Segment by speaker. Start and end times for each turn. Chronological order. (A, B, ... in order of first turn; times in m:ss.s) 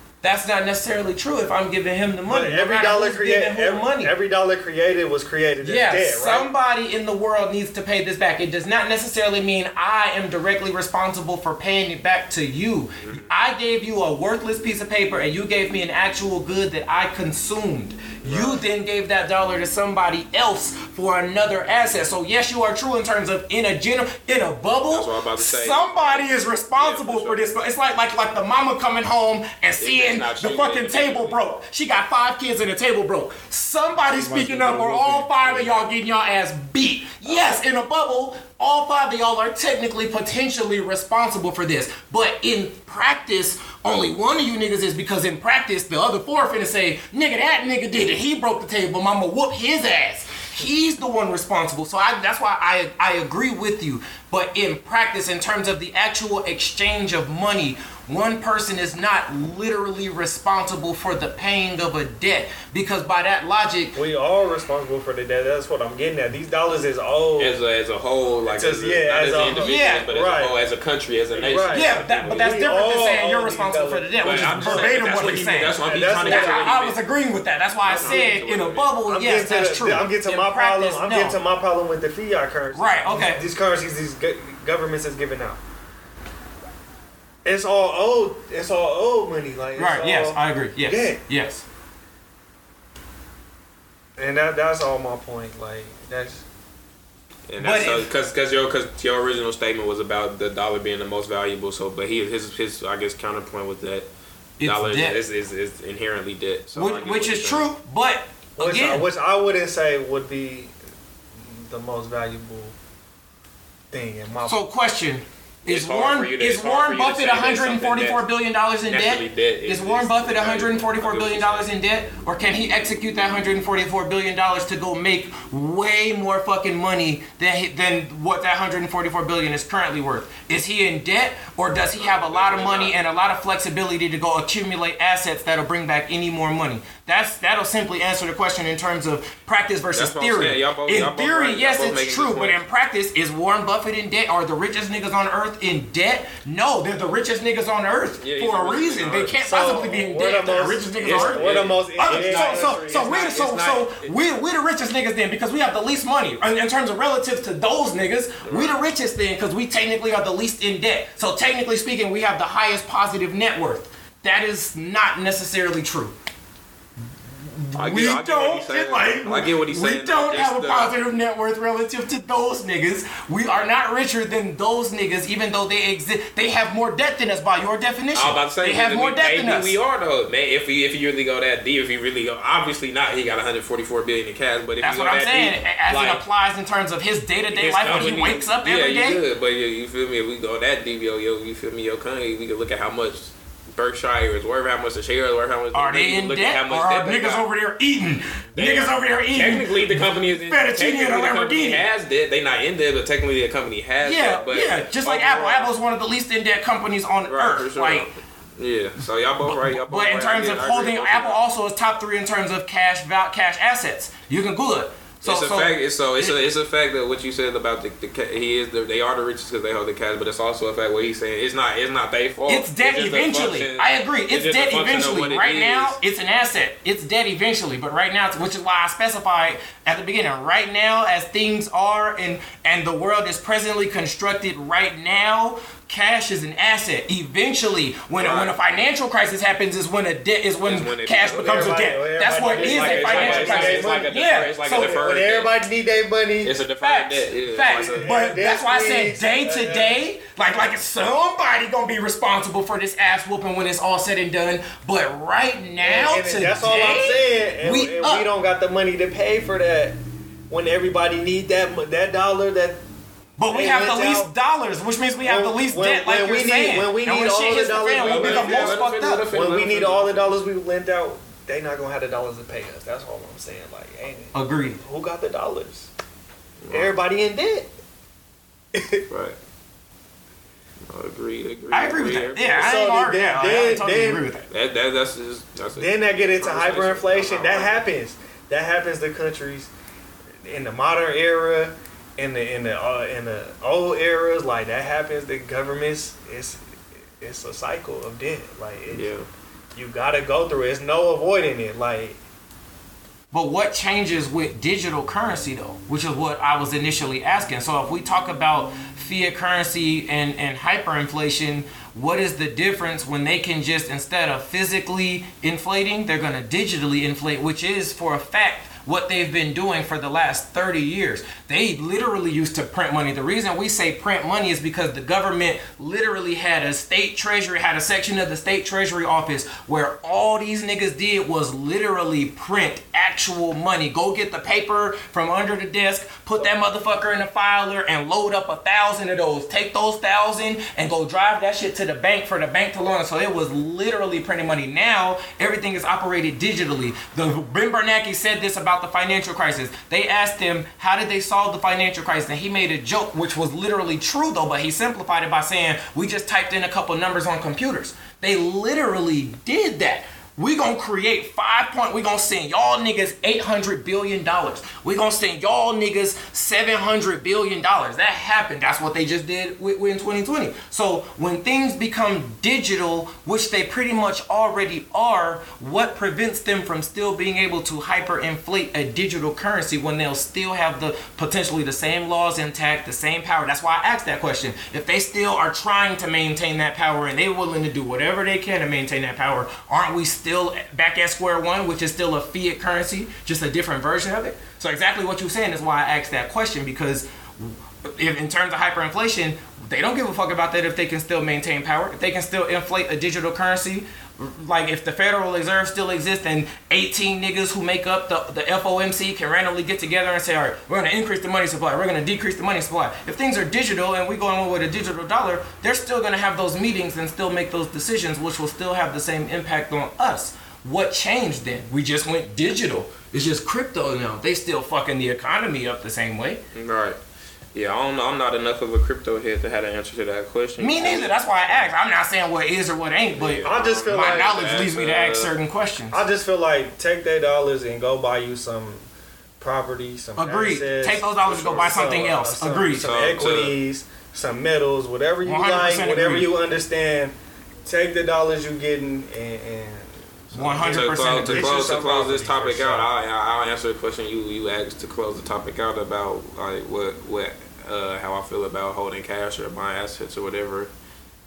0:00.2-0:04.1 A
0:02.3-0:06.5 B
0:05.6-1:04.0 A
0:13.0-0:13.3 C
0:18.2-0:18.6 C
0:24.9-0:27.5 C
0:29.8-0:31.4 C
0:34.0-0:35.8 C
0:37.2-0:37.5 C
1:03.9-1:07.6 B
1:07.4-1:12.0 C
1:08.5-1:10.6 B
1:09.6-1:10.1 A
1:11.3-1:15.0 B
1:11.7-1:21.4 A
1:14.2-1:17.0 C
1:15.8-1:16.7 B
1:17.8-1:18.9 C
1:18.0-1:18.3 B
1:19.0-1:25.6 B
1:22.7-1:23.4 A
1:27.4-1:31.2 B
1:29.8-1:31.6 A
1:34.2-1:36.4 B
1:37.5-1:44.1 C
1:37.6-1:38.1 A
1:44.6-1:45.2 A
1:44.6-1:47.7 C
1:46.8-1:49.1 A
1:48.6-1:50.7 B
1:51.5-1:52.7 B
1:53.9-1:54.6 B
1:54.4-2:46.1 A
1:55.6-1:58.2 C
1:58.9-2:01.7 C
2:11.9-2:12.9 C
2:19.9-2:22.6 C
2:28.2-2:29.4 C
2:29.4-2:33.2 B
2:31.0-2:34.2 C
2:38.4-2:38.8 C
2:47.4-2:59.8 A
2:47.8-2:50.9 C
2:58.1-3:06.2 C
3:04.8-3:09.2 A
3:07.5-3:17.4 C
3:15.7-3:21.8 A
3:18.6-3:25.7 C
3:24.0-3:28.1 A
3:27.2-3:31.4 C
3:29.4-3:36.3 A
3:35.2-3:46.0 C
3:42.5-4:05.0 A
3:58.1-3:58.5 C
4:00.6-4:02.0 C
4:01.3-4:06.6 B
4:02.6-4:05.5 C
4:06.4-4:08.1 C
4:06.8-4:18.2 A
4:07.6-4:10.0 B
4:15.8-4:20.0 B
4:20.5-4:22.8 B
4:23.4-4:29.2 A
4:23.5-4:24.3 B
4:25.2-4:28.8 B
4:28.0-4:30.3 C
4:29.3-4:35.9 B
4:34.3-4:34.8 A
4:36.6-4:36.9 C
4:36.7-4:37.7 B
4:38.7-4:39.0 B
4:39.1-4:39.4 C
4:40.9-4:42.6 C
4:41.7-4:44.5 A
4:42.5-4:44.2 B
4:44.5-4:47.8 C
4:45.8-4:49.7 B
4:50.4-4:56.6 B
4:57.2-4:59.1 B
4:58.9-4:59.3 C
4:59.7-5:02.2 B
5:03.3-7:06.4 A
7:06.5-7:07.0 C
7:07.5-7:11.7 C
7:10.6-7:16.0 A
7:13.2-7:15.3 C
7:13.4-7:14.7 B
7:15.9-7:18.8 B
7:19.4-7:32.9 B
7:20.2-7:22.9 A
7:22.8-7:23.6 C
7:25.2-7:26.3 A
7:30.3-7:40.7 C
7:30.3-7:31.5 A